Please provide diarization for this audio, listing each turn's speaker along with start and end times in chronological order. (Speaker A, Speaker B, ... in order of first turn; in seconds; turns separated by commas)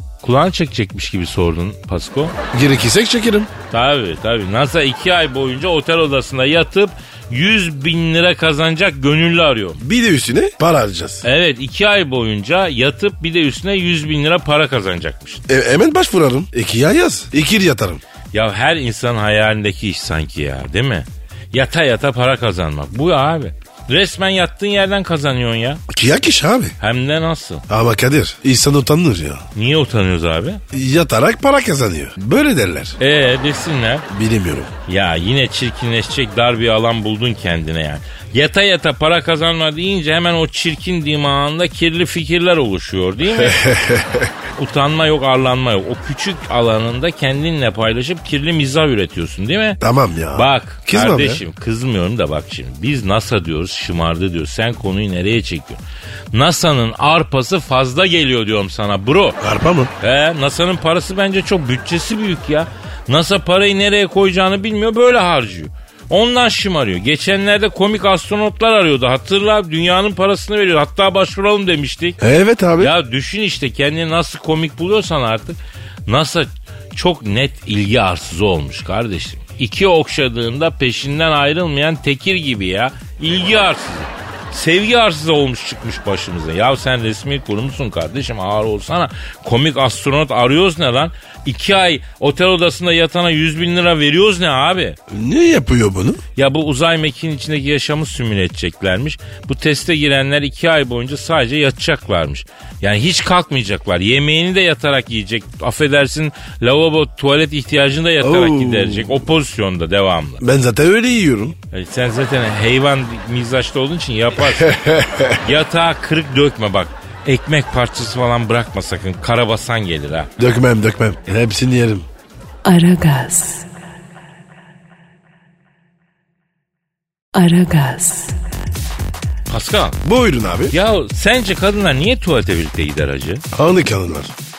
Speaker A: 0.2-2.4, Speaker B: 2.5-3.5, Speaker A: 3.7-9.8, Speaker B: 9.8-11.2, Speaker A: 11.2-15.4, Speaker B: 15.5-18.0, Speaker A: 18.3-25.8, Speaker B: 25.9-26.8, Speaker A: 26.8-27.6, Speaker B: 27.7-29.4, Speaker A: 29.5-30.6, Speaker B: 30.7-33.0, Speaker A: 33.0-34.1, Speaker B: 34.1-34.7, Speaker A: 34.9-43.6, Speaker B: 43.4-44.3, Speaker A: 44.6-49.8, Speaker B: 49.8-51.4, Speaker A: 50.3-59.4, Speaker B: 59.4-59.9, Speaker A: 60.0-72.2, Speaker B: 72.2-72.9, Speaker A: 72.8-95.0, Speaker B: 95.1-96.2, Speaker A: 96.4-110.4, Speaker B: 108.2-109.1, Speaker B: 110.4-111.6, Speaker A: 111.7-114.8, Speaker B: 114.5-115.5, Speaker A: 115.4-120.3, Speaker B: 120.4-122.1, Speaker C: 122.7-123.7, Speaker C: 127.3-128.4, Speaker A: 129.5-130.0, Speaker B: 130.0-130.8, Speaker A: 130.7-133.4, Speaker B: 133.5-134.3